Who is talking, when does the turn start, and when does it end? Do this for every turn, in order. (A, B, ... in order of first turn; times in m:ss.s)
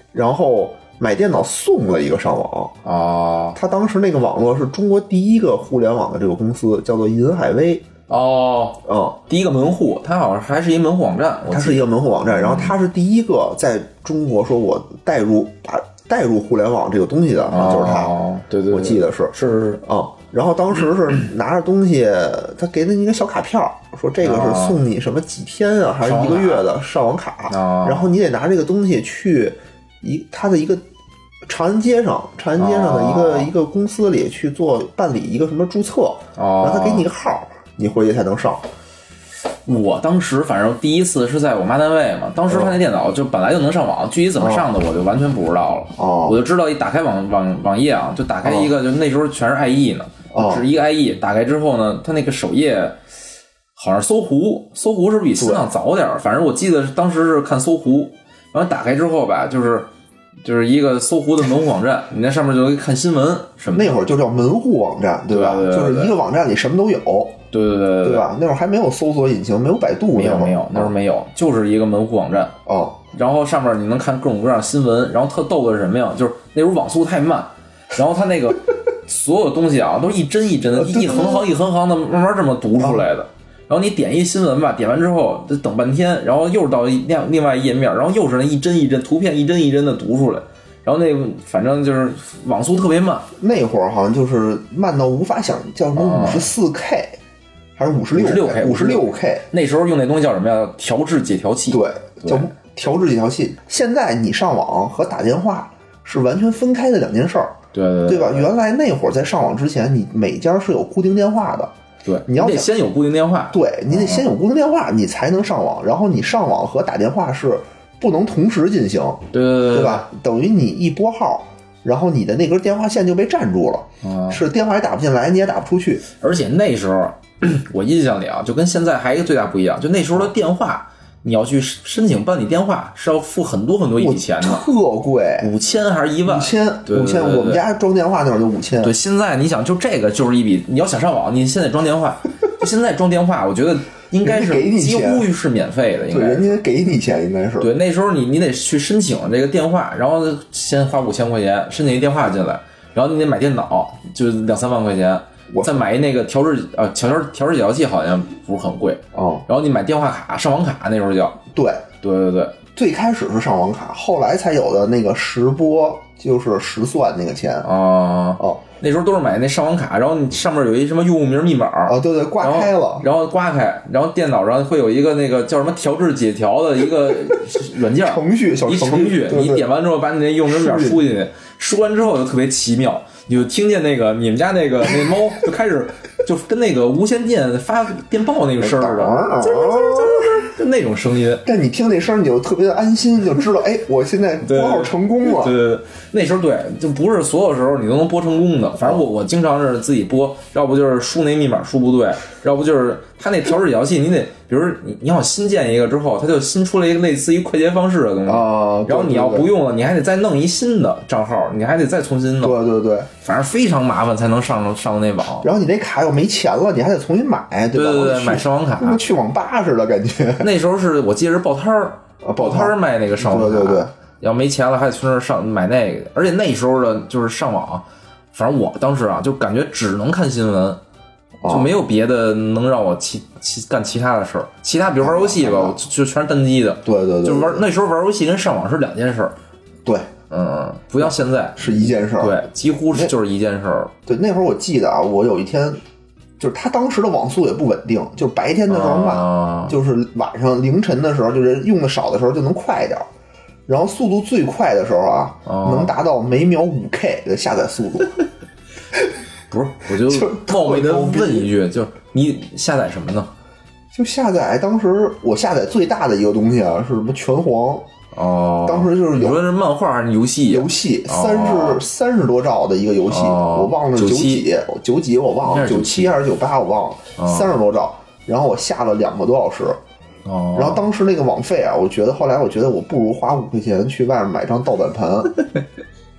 0:00.1-0:02.8 A
0:02.8-0:03.6 B
0:03.5-0:07.8 A
0:08.1-0:12.7 B
0:08.8-0:09.2 A
0:11.5-0:18.2 A
0:17.5-0:19.8 B
0:18.7-0:30.8 A
0:24.2-0:24.8 B
0:26.0-0:26.7 B
0:27.5-0:28.2 B
0:31.5-0:38.6 A
0:32.6-0:33.5 B
0:36.4-0:37.1 B
0:39.6-0:53.0 B
0:42.5-0:42.8 A
0:44.4-0:44.7 A
0:45.9-0:46.4 A
0:48.4-0:48.7 A
0:50.3-0:50.6 A
0:53.8-0:59.9 B
0:55.4-0:55.6 A
1:00.4-1:04.0 B
1:03.7-1:07.4 A
1:05.3-1:06.2 B
1:07.5-1:08.3 B
1:08.0-1:10.9 A
1:10.1-1:12.6 B
1:12.6-1:13.0 A
1:13.1-1:33.3 B
1:20.7-1:21.5 A
1:22.8-1:23.1 A
1:33.4-1:37.2 A
1:35.9-1:36.5 B
1:37.8-1:39.4 A
1:38.1-1:42.5 B
1:41.7-1:51.7 A
1:47.7-1:48.5 B
1:52.0-1:54.3 B
1:52.3-1:52.7 A
1:53.5-2:06.0 A
1:59.3-2:00.1 B
2:04.0-2:04.4 B
2:06.2-2:14.6 B
2:14.0-2:15.5 A
2:15.4-2:17.6 B
2:16.2-2:18.9 A
2:18.8-2:26.5 B
2:24.2-2:25.3 A
2:26.1-2:27.7 A
2:27.6-2:41.4 B
2:35.5-2:35.8 A
2:39.1-2:39.4 A
2:41.5-2:41.8 A
2:42.0-2:42.6 B
2:42.7-2:47.7 A
2:47.6-3:11.4 B
2:51.8-2:53.0 A
2:57.9-2:59.7 A
3:00.4-3:01.0 A
3:08.6-3:10.4 A
3:11.4-3:15.5 A
3:14.4-3:32.6 B
3:28.2-3:29.5 A
3:32.4-3:33.1 A
3:33.2-3:35.5 B
3:35.4-3:40.5 A
3:37.7-3:39.0 B
3:40.4-3:50.8 B
3:42.2-3:43.9 A
3:51.4-3:51.7 A
3:51.4-3:59.3 B
3:55.0-3:55.8 A
3:56.8-3:57.6 A
3:59.8-4:00.1 A
4:00.3-4:03.9 B
4:01.0-4:03.1 A
4:04.0-4:05.8 A
4:06.4-4:13.1 A
4:08.7-4:09.8 B
4:13.7-4:18.2 A
4:15.4-4:15.9 B
4:19.5-4:23.3 B
4:19.9-4:21.5 A
4:23.9-4:27.9 A
4:28.1-4:31.8 B
4:28.6-4:29.4 A
4:30.5-4:39.8 A
4:33.1-4:34.4 B
4:35.4-4:36.1 B
4:37.2-4:37.6 B
4:40.2-4:40.8 B
4:40.5-4:45.4 A